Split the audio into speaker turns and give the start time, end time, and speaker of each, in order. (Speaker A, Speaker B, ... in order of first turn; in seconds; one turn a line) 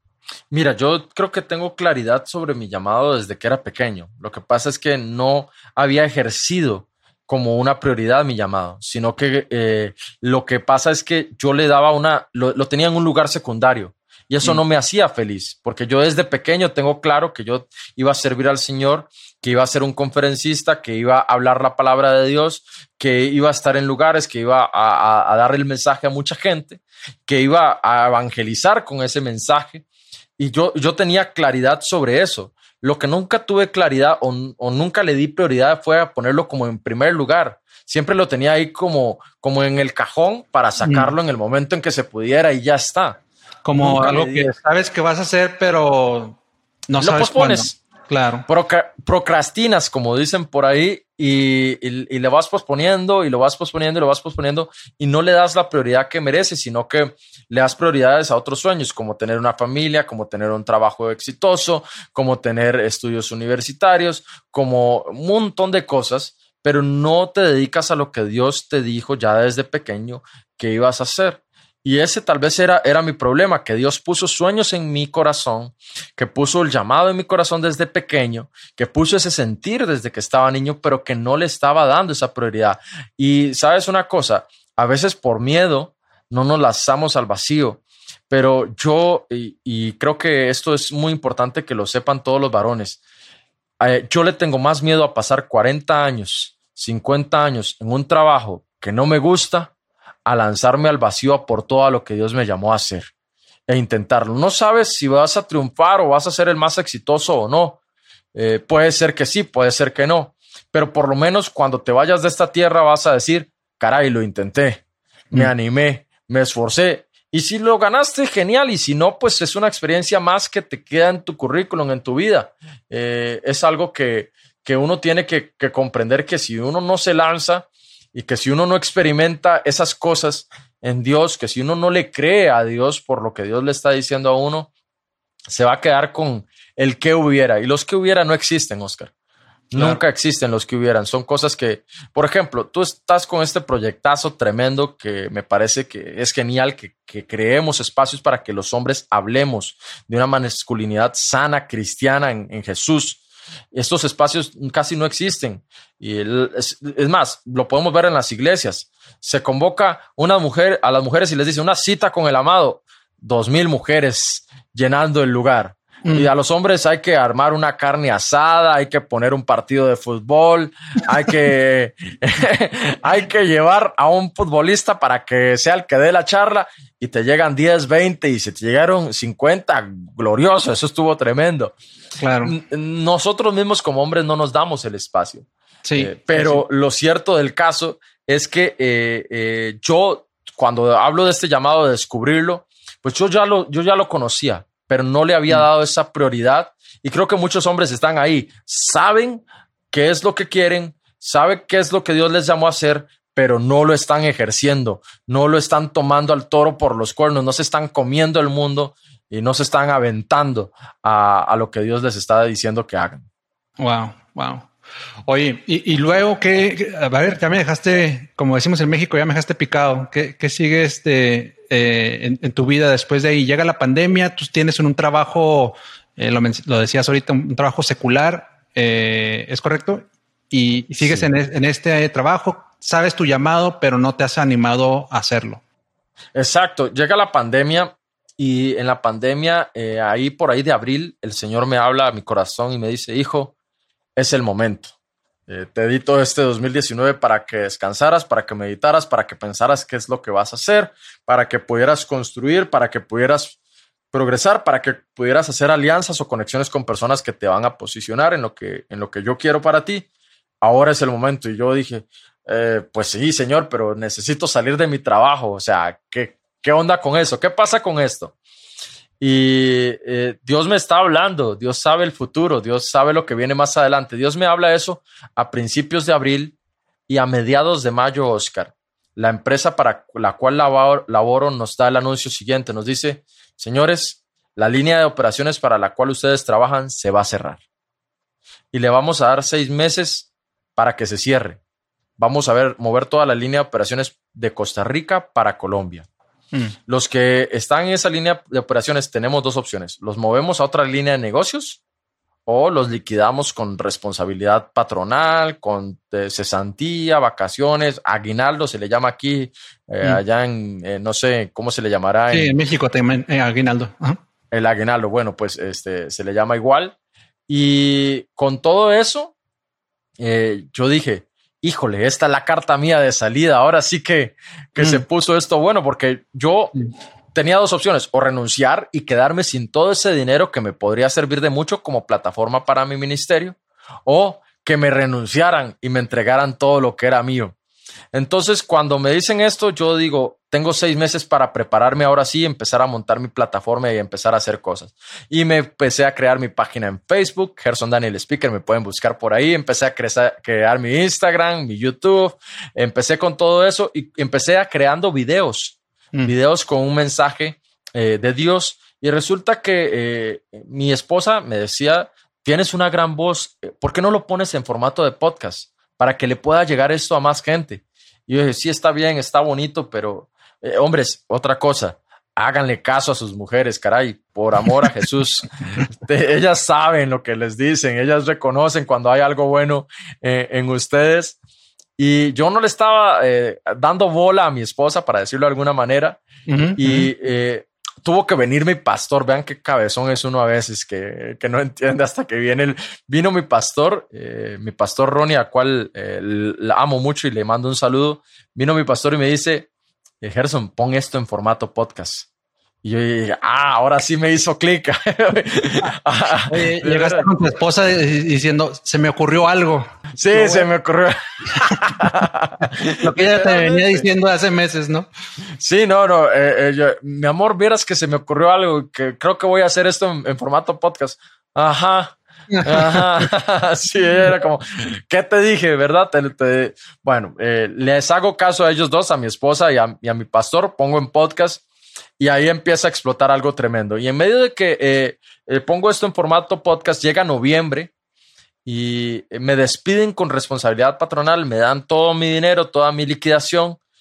Speaker A: 0.5-29.8
Speaker A: 30.4-43.2
Speaker B: 40.8-41.1
Speaker B: 43.6-46.4
Speaker A: 43.8-44.5
Speaker B: 46.9-48.5
Speaker A: 47.0-47.8
Speaker A: 48.5-93.0
Speaker A: 93.8-99.7
Speaker A: 100.2-103.1
Speaker A: 103.7-107.8
Speaker A: 108.3-134.7
Speaker A: 135.5-139.1
Speaker A: 139.7-153.2
Speaker B: 139.7-140.0
Speaker A: 153.7-181.7
Speaker B: 166.0-166.3
Speaker B: 182.2-182.5
Speaker A: 182.4-213.2
Speaker B: 185.8-186.6
Speaker B: 213.8-214.7
Speaker B: 215.3-235.6
Speaker A: 231.0-231.3
Speaker A: 236.3-243.5
Speaker A: 244.2-244.9
Speaker A: 245.5-253.6
Speaker A: 254.1-260.1
Speaker A: 260.6-268.3
Speaker A: 269.2-276.5
Speaker A: 277.1-287.6
Speaker A: 288.7-291.6
Speaker A: 292.2-296.1
Speaker A: 296.9-301.8
Speaker A: 302.4-312.5
Speaker B: 312.3-314.2
Speaker A: 314.5-316.9
Speaker A: 317.5-319.3
Speaker A: 320.2-326.7
Speaker B: 324.8-325.0
Speaker A: 327.3-337.5
Speaker A: 338.1-381.4
Speaker A: 382.0-386.2
Speaker B: 386.5-387.1
Speaker A: 386.8-399.7
Speaker A: 400.2-402.3
Speaker A: 402.8-407.3
Speaker B: 406.5-410.7
Speaker A: 410.1-414.0
Speaker B: 413.0-415.1
Speaker A: 415.6-431.6
Speaker B: 422.5-423.3
Speaker A: 432.2-437.9
Speaker A: 438.6-443.8